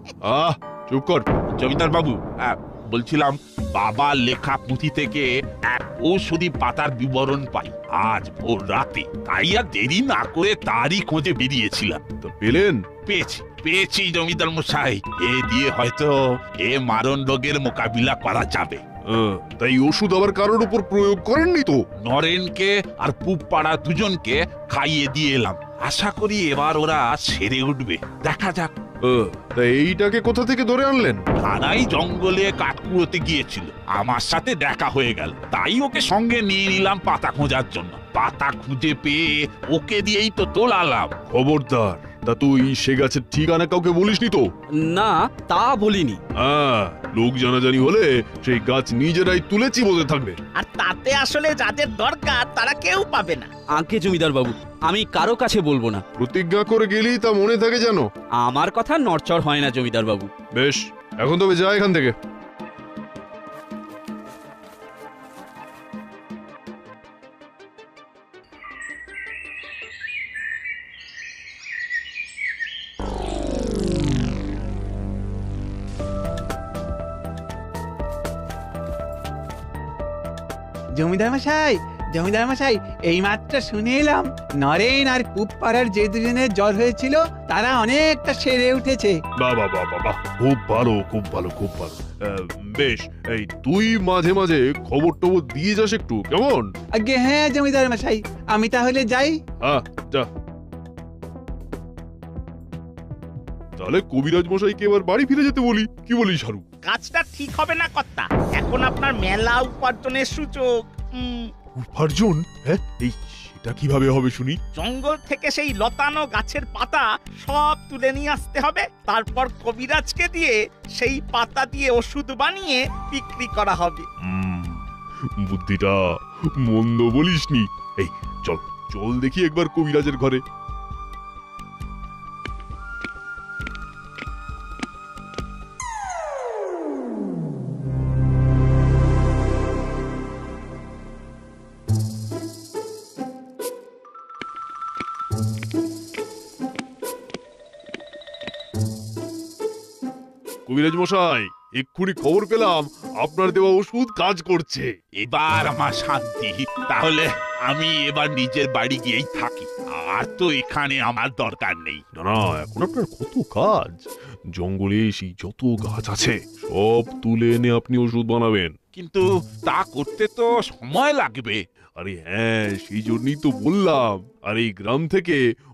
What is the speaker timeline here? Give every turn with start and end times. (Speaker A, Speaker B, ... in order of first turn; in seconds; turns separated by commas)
Speaker A: 0.3-1.2, Speaker B: 1.5-12.0, Speaker A: 12.2-12.8, Speaker B: 13.1-18.8, Speaker A: 19.1-21.8, Speaker B: 22.0-28.7, Speaker A: 29.1-31.2, Speaker B: 31.4-41.1, Speaker A: 41.3-44.5, Speaker C: 44.9-46.2, Speaker A: 46.4-50.4, Speaker D: 50.6-53.5, Speaker C: 53.8-56.0, Speaker A: 56.2-58.1, Speaker C: 58.4-60.3, Speaker A: 60.5-62.1, Speaker E: 81.0-89.2, Speaker A: 89.4-96.7, Speaker E: 97.0-99.4, Speaker A: 99.6-100.3, Speaker A: 103.8-106.7, Speaker D: 106.8-111.5, Speaker A: 111.8-114.6, Speaker D: 114.8-124.1, Speaker A: 124.2-124.8, Speaker A: 125.4-126.1, Speaker A: 126.6-130.4, Speaker A: 150.7-154.9, Speaker B: 155.2-162.0, Speaker A: 162.2-168.7, Speaker B: 168.9-171.6, Speaker A: 172.0-175.4